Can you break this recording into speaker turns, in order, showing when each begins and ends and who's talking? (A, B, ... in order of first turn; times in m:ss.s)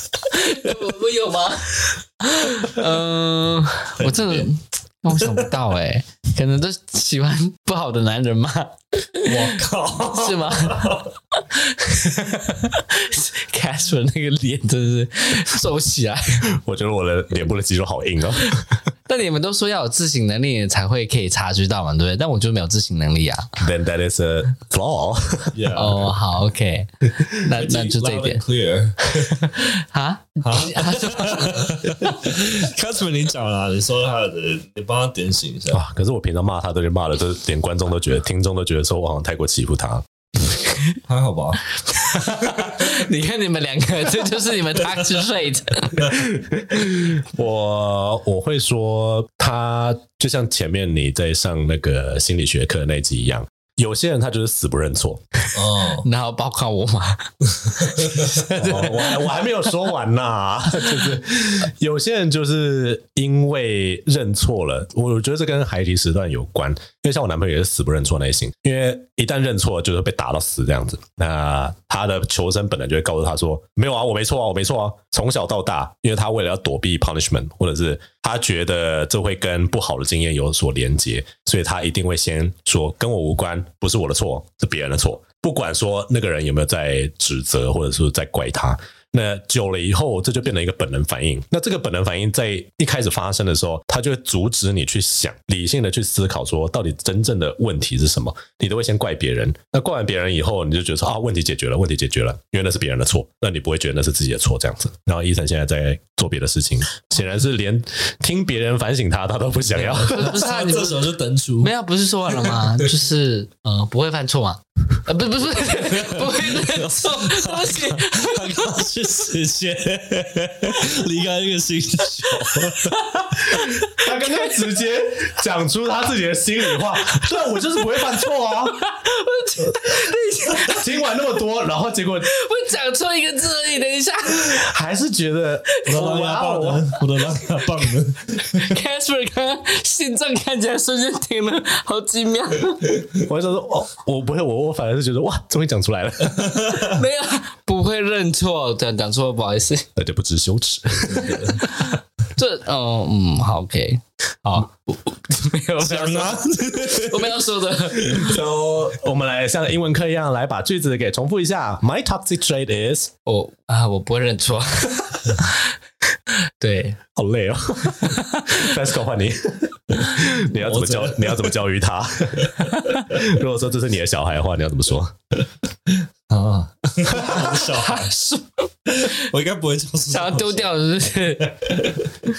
0:00.3-0:16.5 A
0:04.0-0:04.5 B
0:05.2-0:05.5 B
0:09.2-0:11.1 B
0:16.5-0:18.8 C
0:19.1-0:23.6 A
0:23.6-0:25.6 C
0:25.5-0:26.1 B
0:25.8-0:28.4 A
0:27.6-0:29.5 B
0:29.4-0:31.8 A
0:30.4-0:35.8 B
0:35.7-0:40.0 C
0:41.0-0:41.6 B
0:41.9-0:46.3 A
0:46.1-0:55.2 C
0:55.5-0:56.1 B
0:56.0-0:59.3 A
0:57.8-0:58.5 B
0:58.4-1:50.4 C
1:49.7-1:51.7 B
1:50.1-1:58.8 A
1:52.3-1:52.9 B
1:55.6-2:03.1 B
2:03.5-2:08.8 C
2:08.7-2:10.9 A
2:10.6-2:12.3 C
2:12.3-2:14.6 A
2:14.3-2:17.0 C
2:15.9-2:16.6 A
2:15.9-2:18.7 B
2:17.1-2:23.0 A
2:23.2-2:26.8 C
2:26.3-2:27.0 B
2:26.8-2:29.8 A
2:30.0-2:31.6 C
2:31.0-2:31.7 B
2:31.6-2:38.3 A
2:35.8-2:37.4 B
2:38.0-2:38.3 B
2:38.2-2:43.1 C
2:43.3-2:45.7 A
2:46.6-2:47.0 A
2:47.2-2:55.2 C
2:47.9-2:48.8 A
2:50.3-2:51.5 B
2:52.7-2:53.0 A
2:55.9-2:58.2 B
2:57.4-2:59.2 A
2:58.9-3:00.7 B
3:00.1-3:01.8 A
3:01.4-3:02.2 B